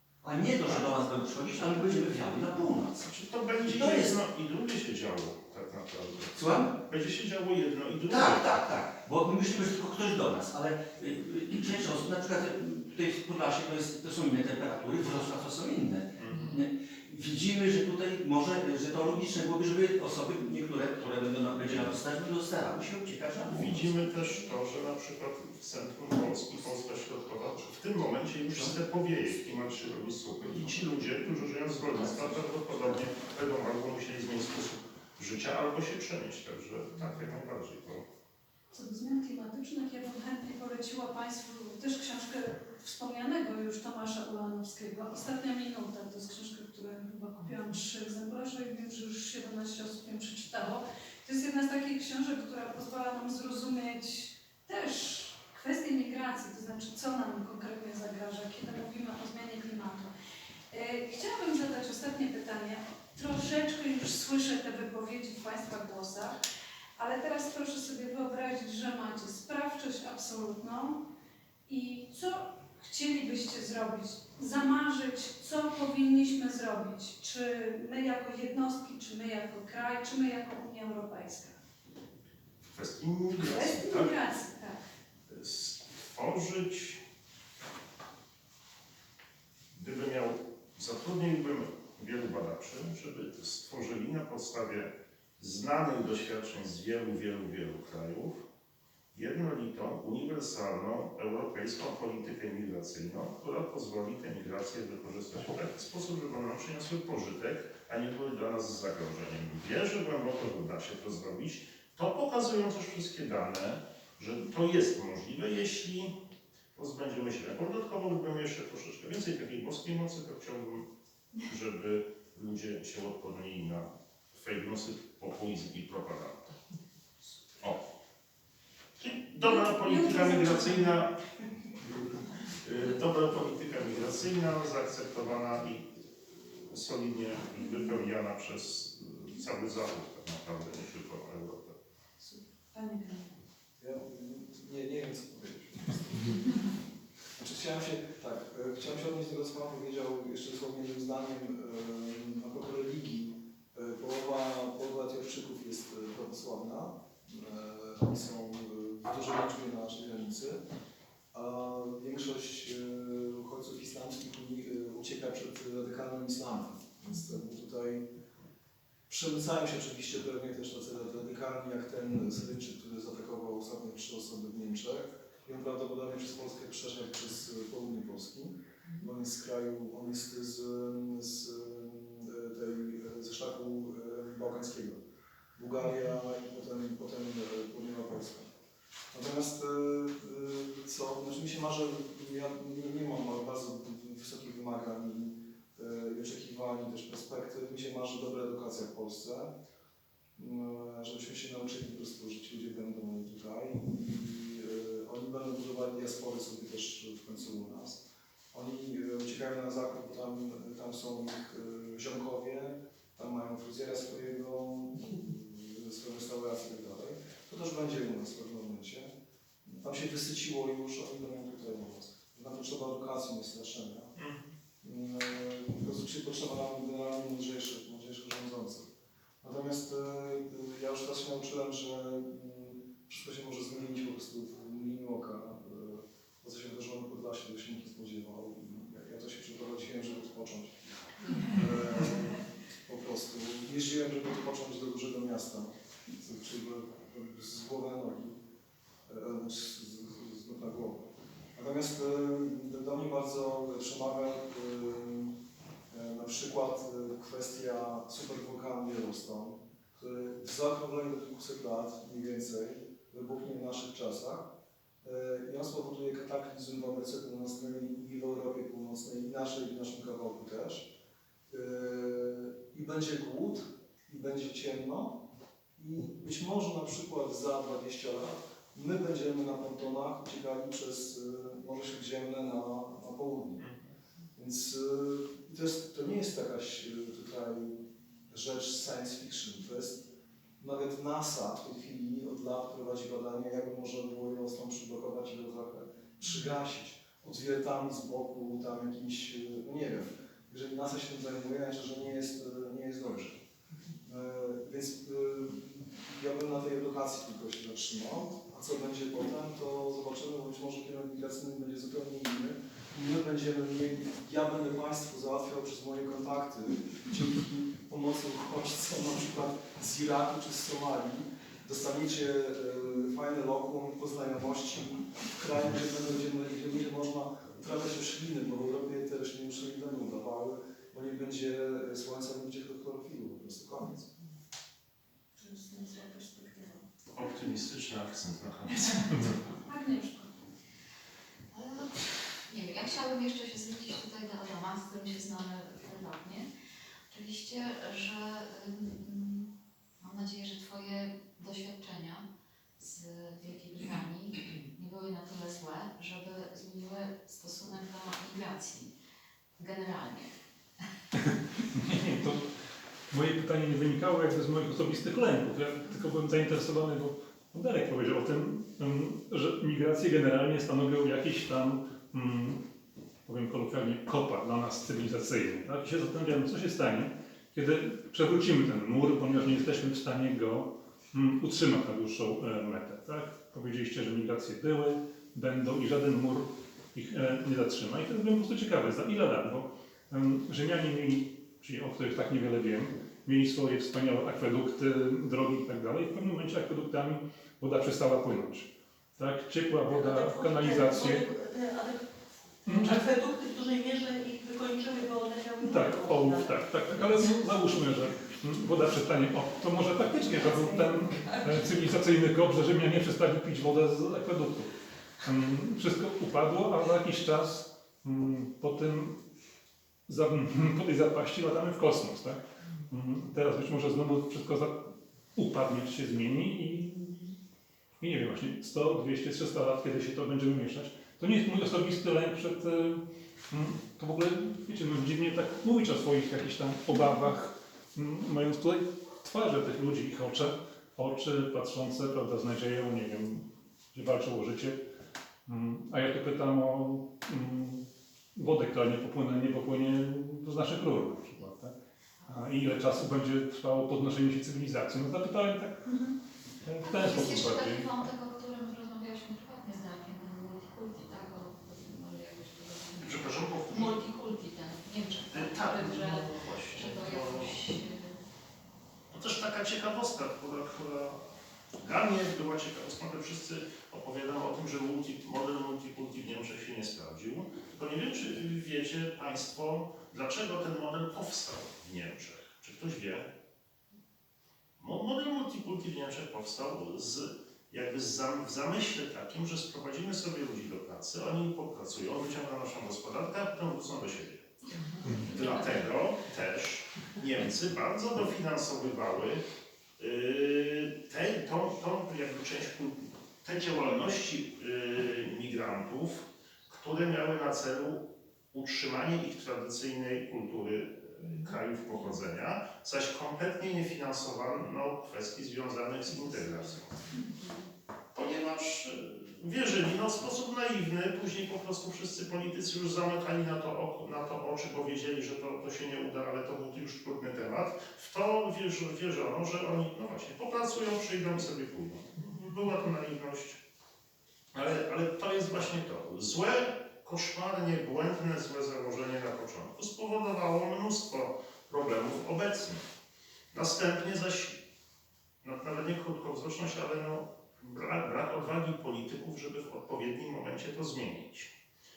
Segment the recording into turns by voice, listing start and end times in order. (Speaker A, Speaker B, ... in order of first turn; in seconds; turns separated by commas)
Speaker A: 0.2-3.1, Speaker B: 3.0-8.5, Speaker A: 3.7-4.1, Speaker A: 6.3-6.7, Speaker A: 8.1-23.9, Speaker B: 16.1-16.6, Speaker B: 23.5-38.0, Speaker C: 38.7-60.1, Speaker C: 60.7-66.4, Speaker C: 67.0-71.0, Speaker C: 71.7-81.5, Speaker B: 82.7-84.1, Speaker C: 83.3-84.8, Speaker B: 85.3-87.0, Speaker B: 89.7-98.4, Speaker B: 99.1-116.1, Speaker B: 116.7-120.8, Speaker B: 121.4-126.5, Speaker B: 129.0-131.1, Speaker C: 129.4-131.1, Speaker B: 132.6-141.7, Speaker C: 142.2-143.4, Speaker D: 143.8-146.7, Speaker D: 147.3-160.6, Speaker D: 161.3-168.1, Speaker D: 169.1-185.0, Speaker D: 185.6-188.5, Speaker D: 189.1-199.5, Speaker D: 200.3-219.1, Speaker D: 219.6-224.1, Speaker B: 224.2-224.4, Speaker D: 224.8-228.9, Speaker D: 229.4-240.8, Speaker D: 241.3-248.4, Speaker D: 249.1-255.4, Speaker D: 255.9-264.5, Speaker D: 265.0-270.9, Speaker D: 271.5-275.2, Speaker D: 275.8-283.6, Speaker D: 284.3-290.1, Speaker D: 290.6-303.4, Speaker D: 304.0-334.1, Speaker C: 335.4-336.9, Speaker B: 337.1-339.4, Speaker C: 339.4-340.5, Speaker E: 341.5-346.5, Speaker E: 347.1-352.2, Speaker E: 352.8-358.9, Speaker E: 359.6-360.3, Speaker F: 361.1-362.5, Speaker F: 363.1-372.6, Speaker F: 373.2-401.2, Speaker G: 399.9-402.1, Speaker G: 402.6-406.6, Speaker F: 402.6-403.0, Speaker F: 405.6-414.7, Speaker G: 410.2-411.9, Speaker F: 415.2-419.2, Speaker F: 420.1-427.4, Speaker F: 428.0-444.8, Speaker F: 445.4-451.7, Speaker F: 452.2-456.0, Speaker F: 456.6-457.9, Speaker E: 456.8-468.2, Speaker B: 463.0-463.9, Speaker B: 465.3-467.6, Speaker B: 469.1-471.2, Speaker B: 471.8-483.3, Speaker B: 484.8-494.5, Speaker E: 494.9-495.6, Speaker B: 495.1-499.4, Speaker B: 500.0-516.9, Speaker E: 517.1-517.5, Speaker B: 518.1-533.6, Speaker B: 534.5-542.8, Speaker B: 543.5-544.6, Speaker B: 545.4-551.5